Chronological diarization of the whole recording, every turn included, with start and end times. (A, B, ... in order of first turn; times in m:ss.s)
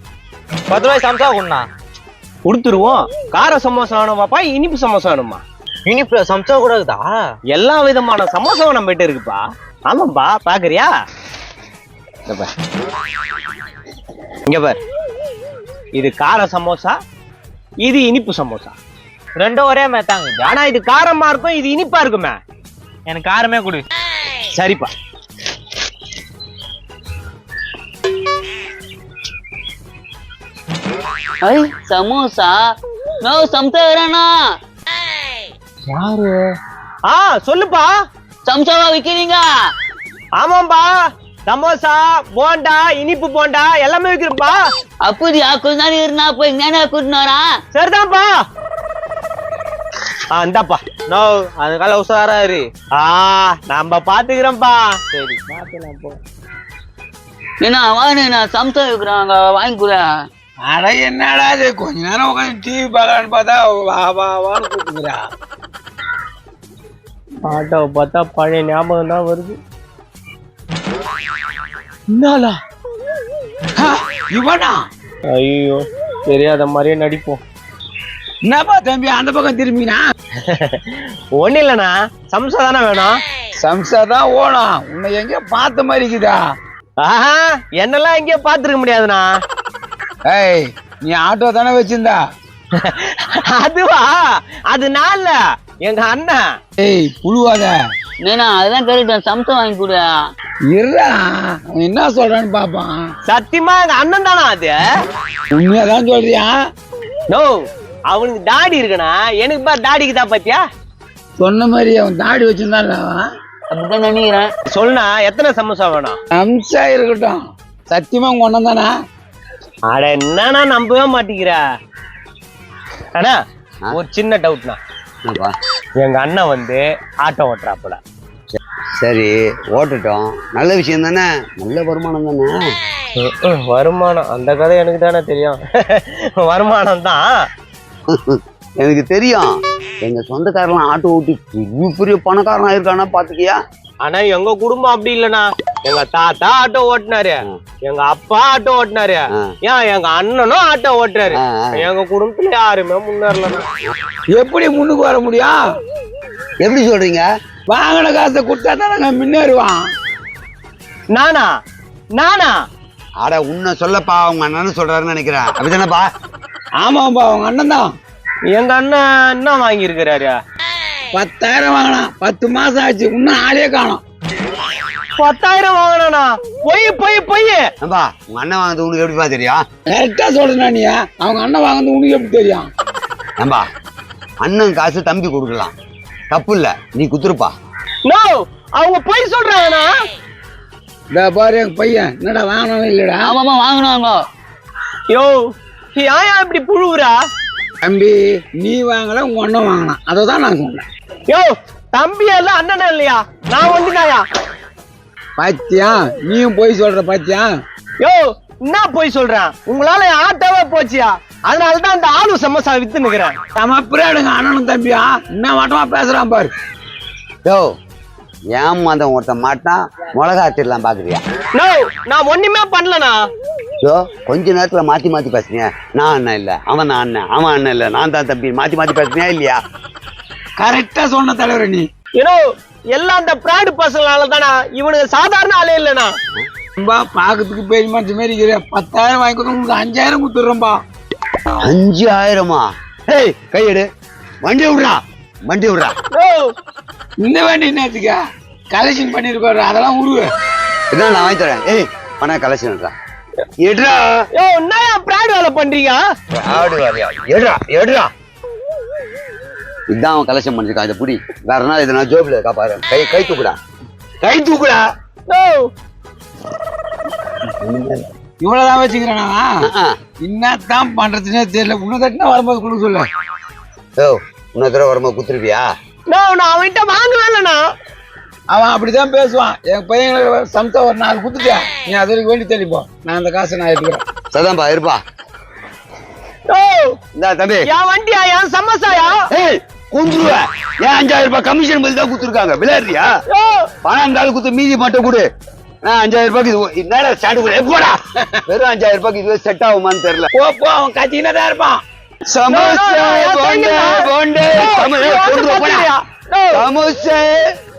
0:00.7-0:01.5 A
0:02.4-0:05.4 B
0:05.9-0:07.1 A
0:07.5-0:10.9 B
0:14.5-0:14.8 B
0:16.0-0:17.0 B
0:17.8-0:18.8 B
0:19.4-0:19.7 A
0:20.4-0:22.4 B
0:23.1-0:23.7 A
0:24.5-0:24.9 B
0:31.4-0:32.6 C
0:33.2-0:34.4 C
0:35.9-0:36.4 B
0:37.1-0:37.9 B
0:38.5-0:39.4 C
0:40.4-0:40.9 B
0:41.5-0:44.6 B
0:45.0-0:47.5 C
0:47.7-0:48.3 B
0:50.3-0:55.6 B
0:57.6-1:00.0 C
1:00.6-1:05.2 D
1:07.4-1:09.6 B
1:12.1-1:12.6 B
1:13.8-1:14.8 D
1:15.3-1:17.4 B
1:18.4-1:20.0 D
1:20.4-1:23.1 B
1:23.6-1:26.4 D
1:27.0-1:29.3 B
1:30.3-1:32.2 D
1:32.8-1:36.4 B
1:36.8-1:37.8 D
1:38.2-1:40.1 C
1:40.7-1:43.0 D
1:43.3-1:44.8 B
1:45.5-1:46.5 D
1:47.3-1:47.6 B
1:48.1-1:50.6 B
1:51.4-1:53.2 D
1:53.7-1:54.5 C
1:54.7-1:56.2 B
1:56.3-1:58.9 D
1:59.9-2:01.6 B
2:03.9-2:04.8 B
2:05.2-2:05.6 E
2:06.0-2:08.0 B
2:09.0-2:12.7 E
2:13.2-2:17.3 B
2:18.1-2:23.6 E
2:24.0-2:33.7 B
2:31.3-2:31.8 E
2:34.3-2:35.6 D
2:36.6-2:37.3 E
2:37.7-2:39.8 D
2:41.1-2:41.5 B
2:42.2-2:42.6 B
2:43.2-2:46.1 E
2:46.8-2:47.9 D
2:48.5-2:50.4 B
2:51.1-2:54.0 D
2:55.2-2:57.6 B
2:57.8-2:59.6 E
2:59.9-3:02.7 D
3:03.4-3:03.6 E
3:04.4-3:05.7 E
3:06.3-3:07.5 E
3:08.1-3:09.9 B
3:11.1-3:13.4 D
3:13.2-3:14.2 C
3:15.1-3:15.4 B
3:16.0-3:17.2 B
3:17.8-3:20.9 D
3:21.3-3:24.2 B
3:25.4-3:27.5 D
3:28.0-3:33.4 B
3:33.6-3:36.5 D
3:37.4-3:37.7 E
3:38.5-3:41.2 E
3:41.6-3:43.2 B
3:43.8-3:49.6 E
3:50.6-3:51.9 D
3:52.2-3:56.1 B
3:56.8-4:00.8 D
4:01.6-4:03.9 E
4:04.4-4:05.9 E
4:06.1-4:06.5 B
4:07.2-4:08.2 D
4:08.7-4:10.3 D
4:10.9-4:12.9 E
4:13.6-4:14.1 E
4:14.4-4:16.0 B
4:16.4-4:18.1 E
4:19.9-4:23.6 E
4:24.2-4:24.9 E
4:25.3-4:25.7 B
4:27.6-4:28.1 E
4:28.4-4:29.5 D
4:30.2-4:33.1 D
4:34.0-4:35.7 E
4:36.1-4:37.6 B
4:38.5-4:44.0 D
4:44.3-4:45.0 E
4:46.5-4:47.0 B
4:47.2-4:47.7 E
4:47.7-4:49.2 B
4:49.3-4:53.1 E
4:53.3-4:53.7 B
4:53.8-4:55.3 E
4:55.8-5:00.3 E
5:00.4-5:01.8 D
5:02.3-5:05.9 E
5:02.5-5:06.6 B
5:06.5-5:07.5 E